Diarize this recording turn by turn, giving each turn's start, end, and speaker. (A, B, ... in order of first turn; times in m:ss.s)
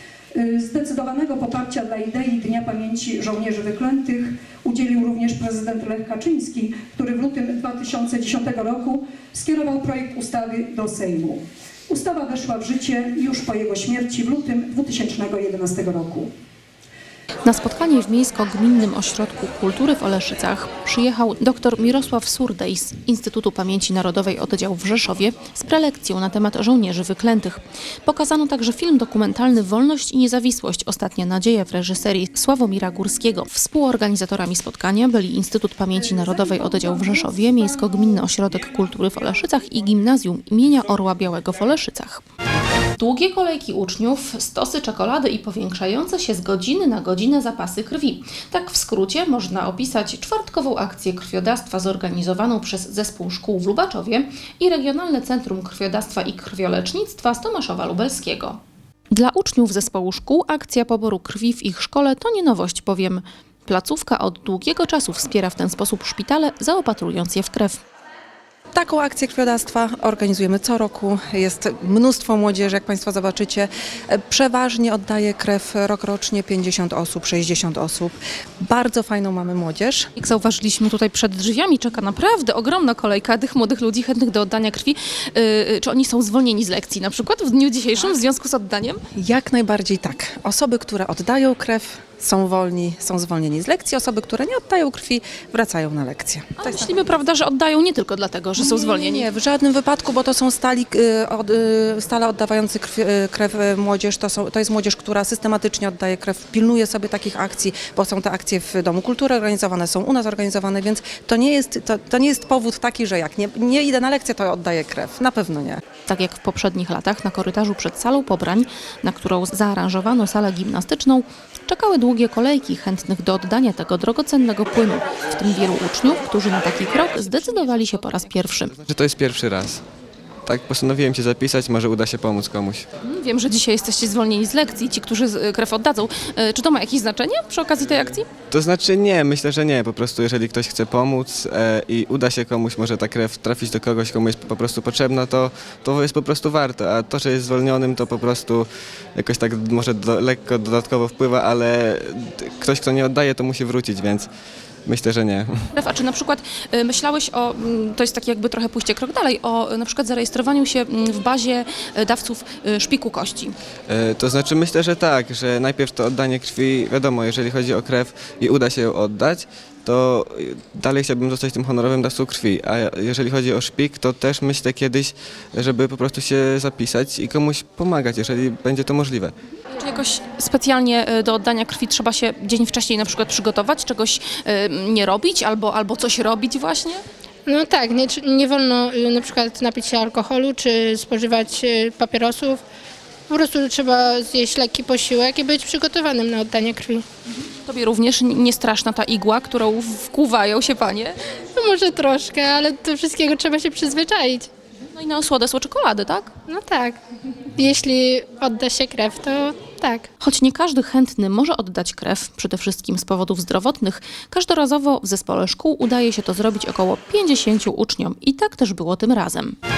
0:00.3-0:16.3 A
0:17.4-0:42.2 B
0:36.2-0:37.6 A
0:43.0-0:58.6 B
0:59.1-1:07.8 B
1:08.7-1:20.1 C
1:20.2-1:29.0 B
1:29.2-1:36.9 C
1:36.6-1:39.3 B
1:38.6-1:55.8 C
1:56.1-2:08.7 B
2:08.8-2:09.8 D
2:10.4-2:12.9 D
2:13.0-2:18.3 B
2:18.5-2:34.3 D
2:34.9-2:35.6 D
2:35.8-2:43.6 B
2:43.9-2:59.3 D
2:59.7-3:07.0 B
3:07.5-3:12.6 E
3:13.3-3:17.1 E
3:17.4-3:21.2 B
3:21.6-3:24.5 E
3:24.9-3:26.3 B
3:26.5-3:27.0 E
3:27.6-3:30.1 E
3:30.2-3:39.6 B